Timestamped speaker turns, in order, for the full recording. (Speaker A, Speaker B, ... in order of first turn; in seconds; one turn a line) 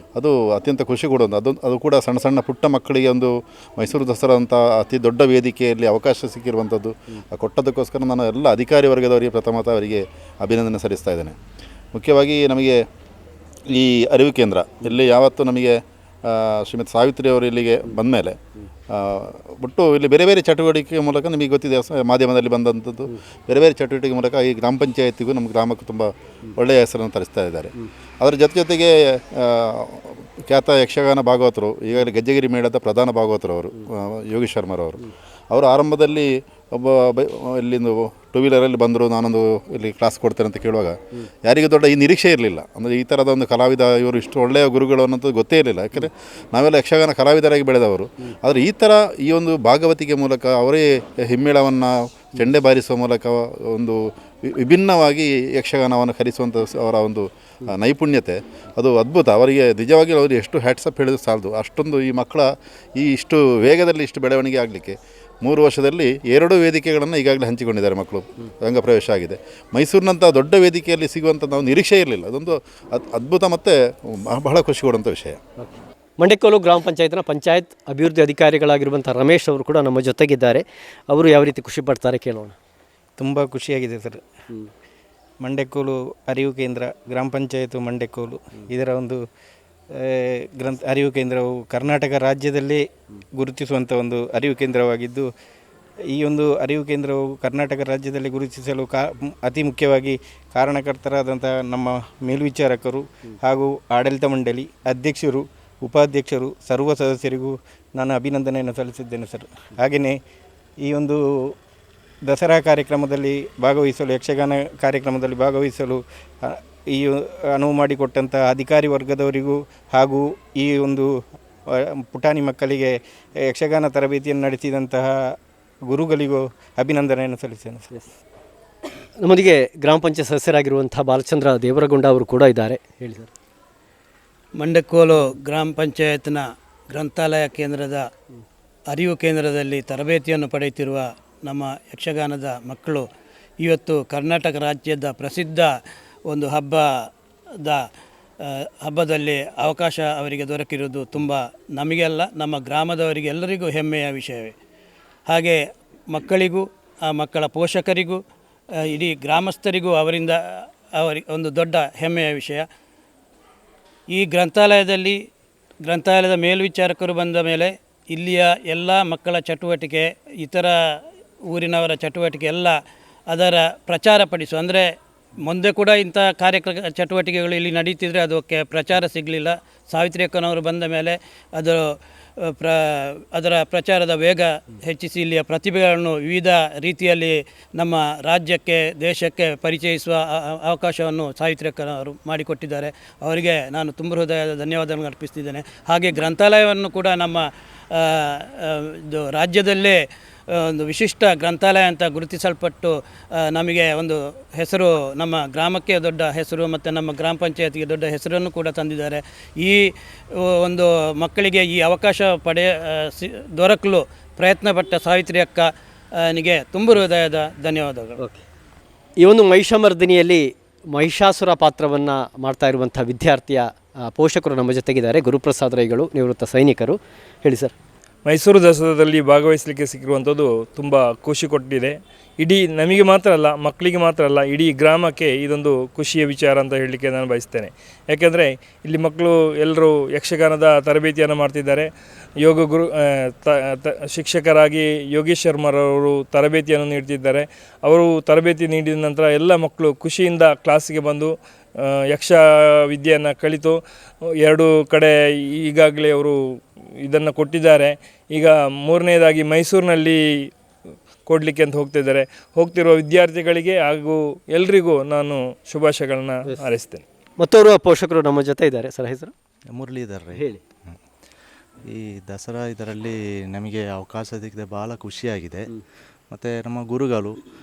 Speaker A: 0.1-11.3
Speaker A: 11.9-12.8
Speaker A: 13.7-18.4
Speaker A: 18.9-75.4
Speaker B: 76.2-82.5
Speaker C: 83.2-84.2
Speaker C: 85.4-89.2
Speaker C: 89.9-95.3
Speaker C: 96.1-110.2
Speaker C: 110.8-111.5
Speaker C: 112.2-121.2
Speaker C: 121.7-125.3
Speaker C: 125.9-127.9
Speaker B: 129.2-133.3
Speaker D: 134.6-138.1
Speaker D: 138.9-143.1
Speaker D: 143.6-145.7
Speaker D: 146.3-147.8
Speaker D: 148.4-154.5
Speaker D: 155.3-158.2
Speaker D: 158.7-162.7
Speaker D: 164.1-165.2
Speaker D: 165.8-172.8
Speaker D: 173.3-215.7
Speaker D: 216.2-218.2
Speaker B: 219.2-227.7
Speaker E: 228.2-241.9
Speaker E: 242.4-253.8
Speaker E: 254.4-260.5
Speaker E: 261.3-267.0
Speaker B: 267.4-269.3
Speaker F: 269.7-270.5
Speaker B: 270.3-270.6
Speaker F: 271.9-275.7
Speaker F: 276.3-277.4